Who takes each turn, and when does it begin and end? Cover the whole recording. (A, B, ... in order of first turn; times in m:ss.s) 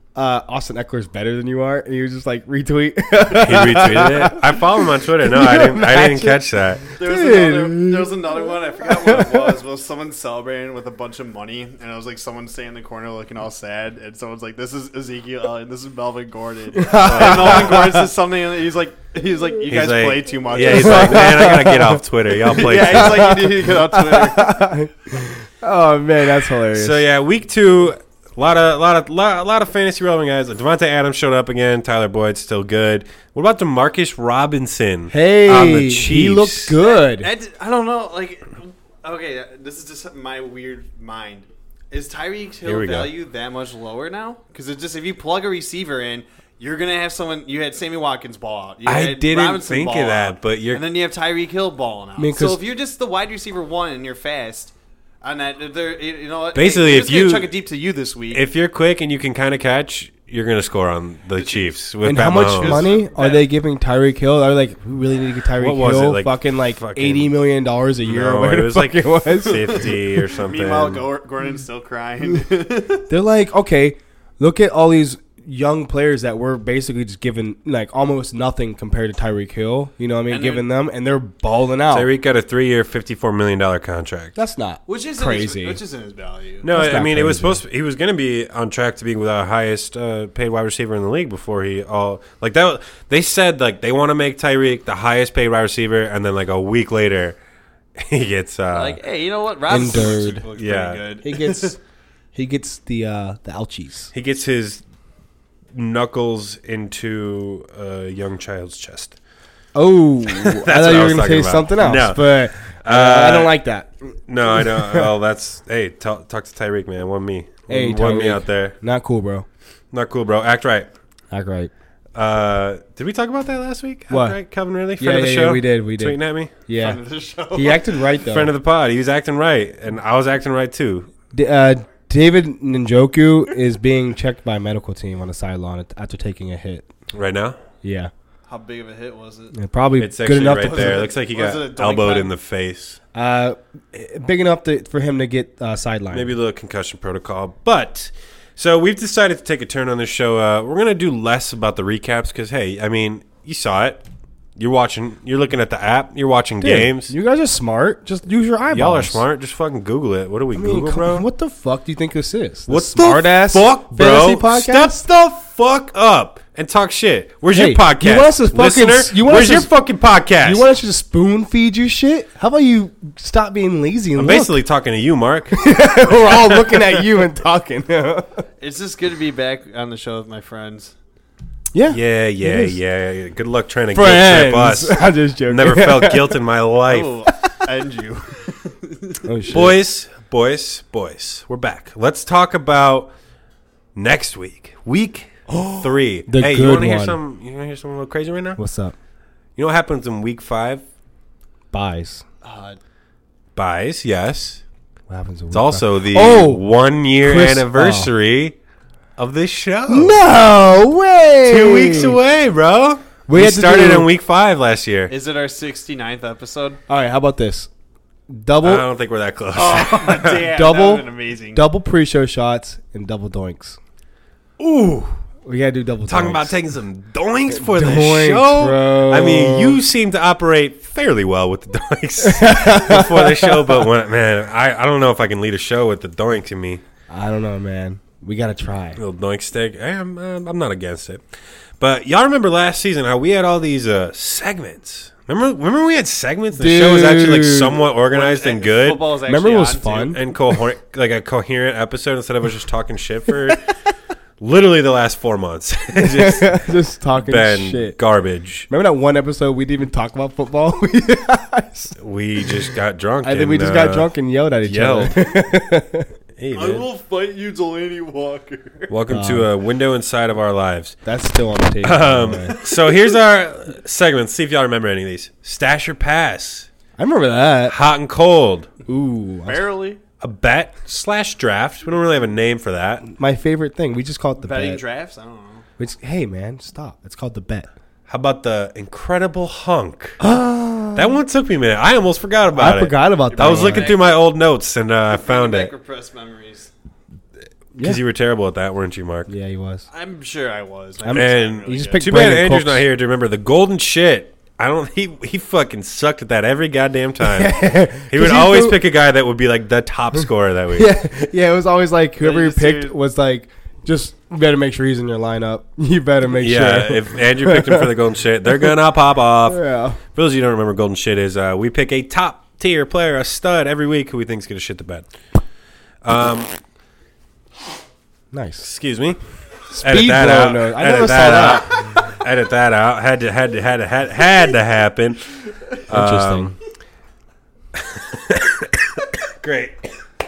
0:00.1-0:09.5 A
0:03.4-0:06.9 B
0:07.0-0:21.6 C
0:16.8-0:18.0 A
0:17.0-0:17.8 B
0:19.7-0:23.3 B
0:20.7-0:22.0 A
0:22.4-0:24.5 C
0:22.8-0:27.0 A
0:26.7-0:36.7 B
0:35.1-0:37.3 A
0:36.8-0:58.4 C
0:42.6-0:43.1 B
0:48.8-0:50.8 B
0:52.2-0:52.6 A
0:56.5-0:57.5 B
0:58.3-1:02.9 B
1:01.3-1:01.7 C
1:02.0-1:09.8 A
1:02.4-1:03.4 C
1:05.6-1:07.3 B
1:08.0-1:11.0 B
1:09.5-1:13.0 C
1:13.1-1:22.1 A
1:20.3-1:20.7 C
1:21.9-1:24.4 B
1:24.4-1:25.8 A
1:24.9-1:26.7 C
1:26.6-1:37.4 B
1:26.7-1:27.6 A
1:38.0-1:39.0 B
1:38.7-1:41.8 C
1:39.7-1:40.4 A
1:40.5-1:41.0 B
1:41.2-1:41.8 A
1:42.3-1:44.1 A
1:44.1-1:44.8 B
1:45.7-1:49.2 B
1:49.7-1:55.1 A
1:50.3-1:53.6 B
1:54.3-1:58.8 B
1:57.7-1:59.4 A
1:59.9-2:00.9 B
2:01.3-2:01.7 A
2:02.1-2:06.5 B
2:04.1-2:04.4 A
2:05.0-2:07.0 A
2:06.8-2:08.2 C
2:07.5-2:08.5 A
2:08.2-2:11.1 B
2:11.3-2:16.9 A
2:17.1-2:17.6 B
2:17.8-2:18.1 A
2:18.5-2:19.6 C
2:19.5-2:21.1 A
2:20.0-2:23.0 B
2:20.6-2:22.3 C
2:23.1-2:26.3 A
2:26.1-2:34.0 B
2:34.6-2:37.1 B
2:36.6-2:39.2 A
2:38.7-2:41.2 B
2:40.5-2:45.0 A
2:42.7-2:50.7 B
2:47.5-2:49.7 A
2:50.4-2:54.5 A
2:54.2-2:55.6 B
2:55.5-2:58.4 A
2:58.6-3:00.9 C
3:01.7-3:02.8 A
3:01.9-3:07.2 B
3:03.9-3:06.4 A
3:06.9-3:09.2 C
3:09.2-3:09.8 A
3:09.5-3:13.1 B
3:13.9-3:18.6 B
3:15.5-3:17.2 A
3:18.6-3:18.9 A
3:19.6-3:20.8 B
3:21.7-3:22.2 A
3:22.4-3:22.8 C
3:23.6-3:24.6 B
3:25.1-3:26.6 A
3:25.5-3:28.6 B
3:27.2-3:28.1 A
3:29.2-3:30.2 B
3:29.9-3:32.2 A
3:31.4-3:35.1 B
3:33.3-3:34.1 A
3:35.1-3:36.8 C
3:36.9-3:37.7 A
3:38.3-3:38.8 A
3:38.6-3:40.4 B
3:39.5-3:41.6 C
3:40.4-3:43.8 A
3:44.6-3:45.2 B
3:45.4-3:46.6 A
3:46.1-3:56.8 B
3:47.5-3:49.8 A
3:52.2-3:53.8 A
3:57.1-3:59.0 A
3:59.0-4:01.2 B
4:01.8-4:09.0 B
4:06.5-4:07.8 A
4:08.0-4:10.1 C
4:09.3-4:10.2 A
4:10.0-4:13.6 B
4:14.4-4:16.6 B
4:16.0-4:18.0 A
4:17.2-4:18.7 B
4:18.7-4:22.0 A
4:22.0-4:24.1 B
4:23.2-4:26.1 A
4:24.6-4:25.3 B
4:26.4-4:26.9 B
4:26.5-4:28.9 C
4:28.9-4:31.0 B
4:29.1-4:29.5 A
4:31.0-4:32.6 A
4:31.8-4:36.7 B
4:32.6-4:33.1 C
4:37.0-4:37.8 A
4:37.7-4:38.7 B
4:38.9-4:39.6 A
4:39.4-4:40.0 C
4:40.2-4:43.0 B
4:43.2-4:44.8 A
4:44.4-4:45.6 C
4:45.8-4:47.7 A
4:48.1-4:50.2 B
4:50.2-4:51.2 A
4:50.9-4:55.7 B
4:52.5-4:53.9 A
4:53.3-4:54.2 C
4:55.1-4:56.7 C
4:57.8-4:59.3 B
4:59.3-4:59.9 A
4:59.9-5:02.1 C
5:01.0-5:02.8 A
5:01.1-5:10.9 B
5:07.2-5:08.8 A
5:10.7-5:17.9 A
5:12.2-5:12.9 C
5:16.4-5:25.0 B
5:19.4-5:20.0 A
5:26.0-5:26.5 B
5:28.3-5:28.7 A
5:28.6-5:29.2 B
5:29.7-5:31.9 A
5:29.7-5:36.5 B
5:35.9-5:36.6 A
5:37.7-5:39.9 B